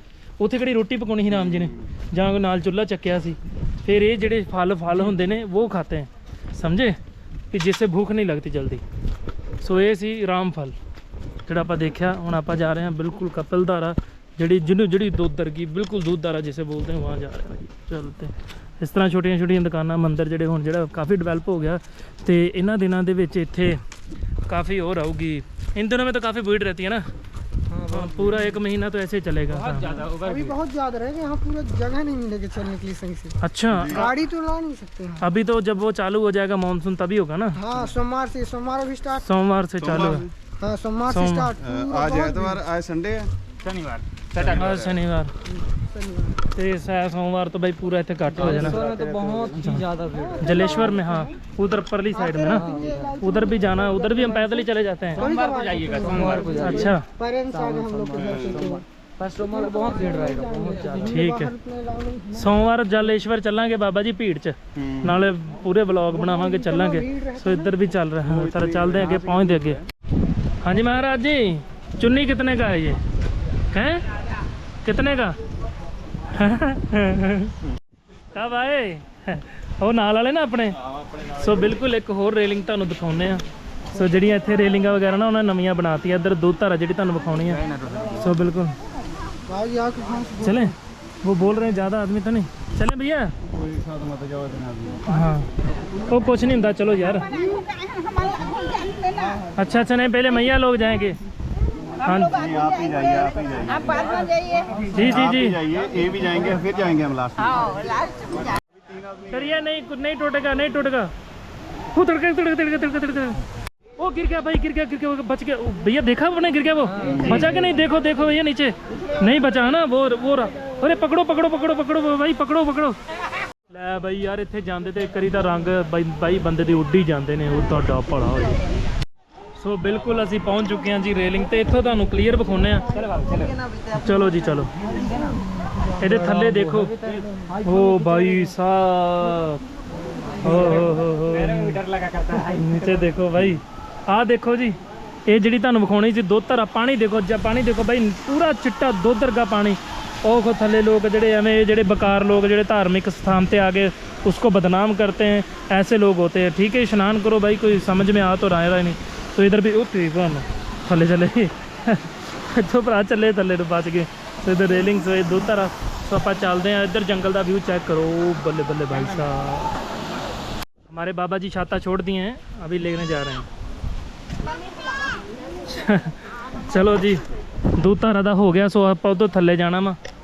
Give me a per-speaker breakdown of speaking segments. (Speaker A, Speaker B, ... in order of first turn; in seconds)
Speaker A: 0.4-7.0, 7.5-8.8, 9.6-10.7, 11.4-23.8, 24.5-27.1, 27.9-30.0, 33.4-34.1, 35.2-37.6, 39.2-40.3, 41.1-41.5, 44.5-45.3, 46.5-48.8, 49.6-49.9, 50.4-52.7, 53.2-55.2, 56.6-57.0, 61.1-61.5, 62.3-69.8, 70.6-73.0, 73.7-74.0, 74.8-75.3, 76.3-77.5, 78.3-80.8, 81.4-87.6, 88.2-88.8, 90.4-93.3, 95.1-95.5, 96.1-97.3, 99.6-101.2, 102.0-102.3, 104.9-105.6, 109.3-111.1, 111.9-113.4, 114.0-123.0, 123.7-128.6, 129.6-132.8, 133.9-134.7, 136.0-137.0, 137.6-139.6, 140.4-141.8, 142.3-169.7, 170.9-173.5, 175.7-177.2, 177.8-180.0
Speaker B: 1.3-1.9, 33.7-34.1, 39.8-40.3, 41.6-43.3, 44.3-45.0, 48.4-49.7, 58.1-58.8, 64.7-65.2, 68.2-69.8, 80.9-81.8, 93.5-95.0, 102.3-104.2, 105.0-107.8, 108.4-109.6, 117.0-117.5
Speaker C: 27.7-28.5, 29.5-30.6, 43.6-44.6, 48.3-50.9, 52.5-53.2, 55.1-57.0, 57.5-61.2, 87.4-88.4, 117.0-117.4, 132.9-133.6, 134.8-135.4, 136.1-137.2, 140.3-143.1, 168.9-169.2
Speaker D: 30.2-35.2, 37.5-39.2, 40.6-42.6, 45.5-46.4, 50.0-51.3, 52.1-58.8, 59.4-62.7, 66.1-67.7, 89.5-90.7, 134.8-136.5, 137.3-138.5
Speaker E: 97.0-99.4, 102.0-104.9, 107.4-108.6